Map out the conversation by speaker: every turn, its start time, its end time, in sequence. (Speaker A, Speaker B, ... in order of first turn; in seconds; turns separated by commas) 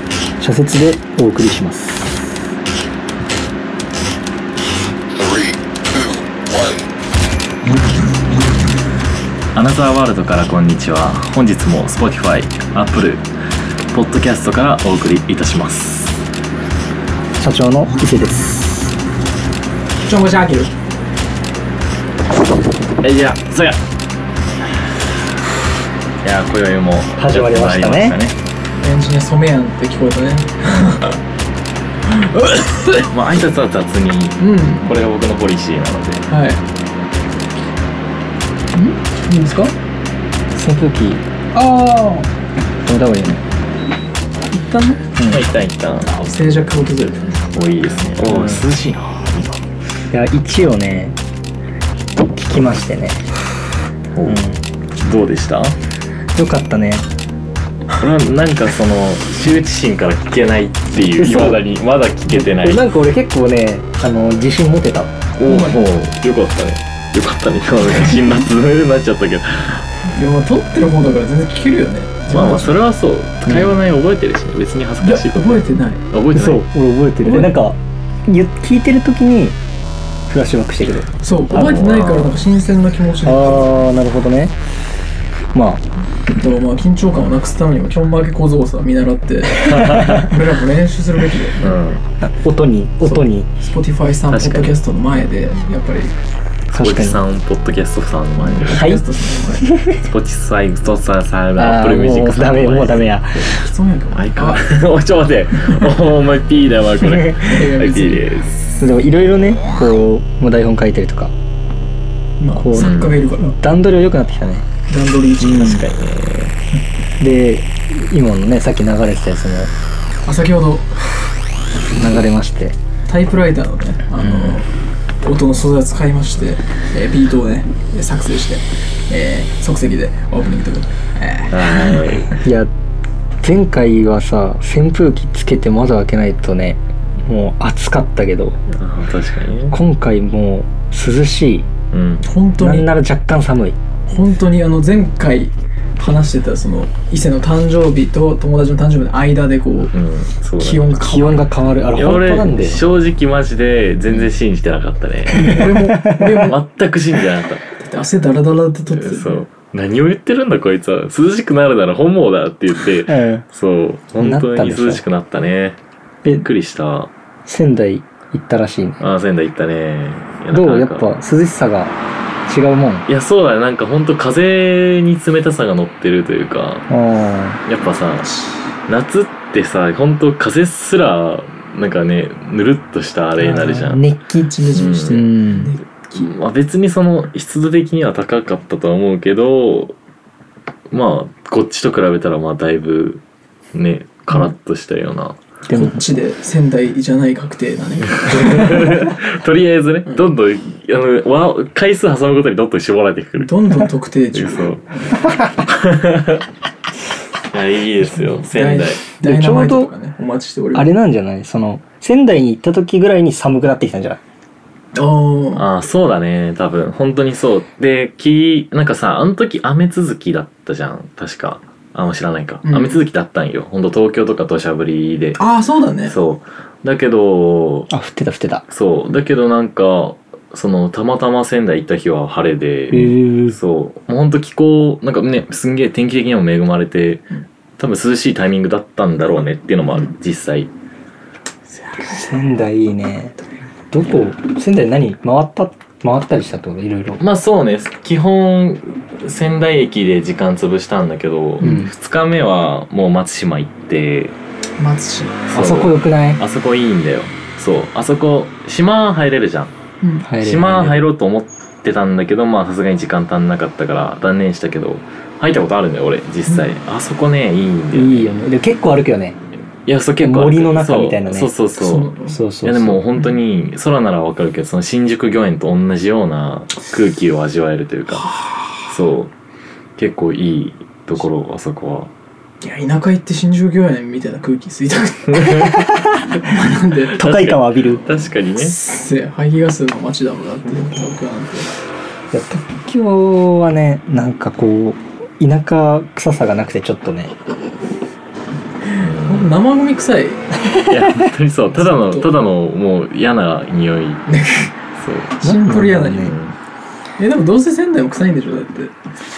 Speaker A: 0.4-2.3, Speaker B: 9.5-13.3, Speaker B: 13.9-16.2, Speaker A: 17.4-18.9, Speaker C: 20.0-20.7, Speaker B: 23.0-23.8, Speaker B: 26.2-28.4, Speaker A: 27.2-28.2, Speaker C: 28.8-31.2, Speaker C: 32.0-33.1, Speaker B: 33.0-36.3, Speaker C: 34.4-34.9, Speaker C: 36.3-36.6, Speaker C: 38.7-39.7, Speaker A: 40.5-41.2, Speaker C: 41.5-42.3, Speaker A: 42.9-43.4, Speaker C: 44.5-45.1, Speaker A: 45.2-45.5, Speaker B: 45.3-46.1, Speaker C: 46.1-47.5, Speaker B: 47.5-49.6, Speaker A: 48.2-48.7, Speaker A: 50.1-51.2, Speaker A: 52.2-53.3, Speaker A: 54.2-54.6, Speaker B: 55.0-55.8, Speaker A: 56.3-57.1, Speaker B: 58.0-62.9, Speaker A: 61.1-61.6, Speaker A: 62.3-65.2, Speaker B: 65.4-69.9, Speaker C: 65.5-65.8, Speaker C: 70.1-72.8, Speaker B: 72.3-76.7, Speaker A: 73.5-73.7, Speaker C: 75.0-76.0, Speaker A: 76.3-79.6, Speaker C: 77.2-77.6, Speaker A: 80.3-81.1, Speaker C: 81.2-83.8, Speaker B: 81.5-82.4, Speaker A: 83.2-84.5, Speaker A: 85.5-85.9, Speaker C: 86.4-91.8, Speaker B: 89.5-90.4, Speaker A: 89.8-90.3, Speaker B: 91.6-92.0, Speaker A: 92.2-93.5, Speaker C: 93.0-96.1, Speaker B: 94.3-94.8, Speaker B: 96.7-98.9, Speaker A: 96.7-97.2, Speaker C: 98.4-99.9, Speaker A: 98.7-99.0, Speaker A: 99.6-100.0, Speaker B: 100.0-103.1, Speaker A: 101.6-103.7, Speaker C: 103.4-104.7, Speaker B: 104.1-108.6, Speaker A: 107.0-107.5, Speaker C: 107.4-108.3, Speaker A: 108.8-111.3, Speaker C: 112.4-113.6, Speaker A: 112.6-114.7, Speaker B: 112.8-113.2, Speaker C: 114.9-115.9, Speaker A: 115.4-115.8, Speaker B: 115.5-116.5, Speaker A: 117.2-119.7, Speaker C: 120.3-121.3, Speaker A: 122.0-122.8, Speaker C: 123.1-124.7, Speaker A: 124.2-124.6, Speaker C: 125.2-132.3, Speaker B: 131.5-132.4, Speaker A: 132.4-132.7, Speaker A: 133.4-138.6, Speaker B: 138.7-139.8, Speaker A: 139.7-141.7, Speaker B: 141.9-142.3, Speaker C: 142.2-142.9, Speaker A: 142.6-143.8, Speaker C: 144.1-149.9, Speaker B: 149.9-151.3, Speaker C: 150.6-151.8, Speaker A: 151.0-152.8, Speaker B: 151.9-155.6, Speaker A: 155.3-156.5, Speaker C: 155.4-156.6, Speaker B: 156.4-157.6, Speaker C: 157.7-159.4, Speaker B: 158.9-165.8, Speaker A: 163.1-163.4, Speaker A: 164.2-165.0, Speaker B: 166.4-167.1, Speaker A: 167.5-169.0, Speaker B: 169.0-171.1, Speaker A: 170.5-172.0, Speaker A: 172.5-173.1, Speaker B: 173.1-176.9, Speaker A: 176.9-177.6, Speaker B: 177.7-178.3, Speaker B: 178.9-184.0, Speaker A: 183.4-185.7, Speaker C: 184.5-186.3, Speaker B: 184.7-185.3, Speaker B: 186.2-190.0, Speaker B: 190.9-193.2, Speaker B: 193.7-195.4, Speaker A: 195.7-196.0, Speaker C: 195.7-199.1, Speaker B: 198.2-203.7, Speaker C: 200.1-200.3, Speaker C: 203.4-205.2, Speaker B: 204.3-206.5, Speaker B: 207.5-209.0, Speaker C: 208.4-210.9, Speaker A: 209.2-209.9, Speaker A: 210.8-214.2, Speaker C: 214.9-215.7, Speaker B: 215.6-225.4, Speaker C: 222.7-223.0, Speaker C: 225.4-226.2, Speaker B: 226.1-227.9, Speaker A: 227.9-228.6, Speaker B: 228.7-240.7, Speaker A: 232.9-233.6, Speaker C: 241.7-242.4, Speaker A: 242.1-243.4, Speaker A: 243.9-247.2, Speaker B: 247.2-254.4, Speaker C: 251.6-251.9, Speaker A: 251.6-251.9, Speaker C: 254.8-255.5, Speaker A: 255.5-256.4, Speaker B: 255.5-259.7, Speaker A: 260.2-261.0, Speaker B: 260.4-268.4, Speaker C: 266.5-266.7, Speaker A: 267.9-269.4, Speaker B: 269.9-272.1, Speaker A: 270.2-271.5, Speaker C: 271.8-272.4, Speaker A: 272.3-273.0, Speaker B: 272.6-279.3, Speaker B: 280.0-282.1, Speaker C: 282.6-287.2, Speaker B: 285.3-285.9, Speaker A: 285.9-286.4, Speaker B: 287.1-288.8, Speaker A: 287.1-288.0, Speaker C: 288.6-291.7, Speaker A: 292.3-297.3, Speaker C: 298.8-300.5, Speaker B: 299.0-299.5, Speaker A: 300.7-301.3, Speaker B: 300.9-304.2, Speaker C: 301.7-302.3, Speaker C: 304.3-304.8, Speaker B: 305.0-305.4, Speaker C: 305.4-306.4, Speaker A: 305.4-306.3, Speaker B: 306.2-306.6, Speaker C: 307.2-308.9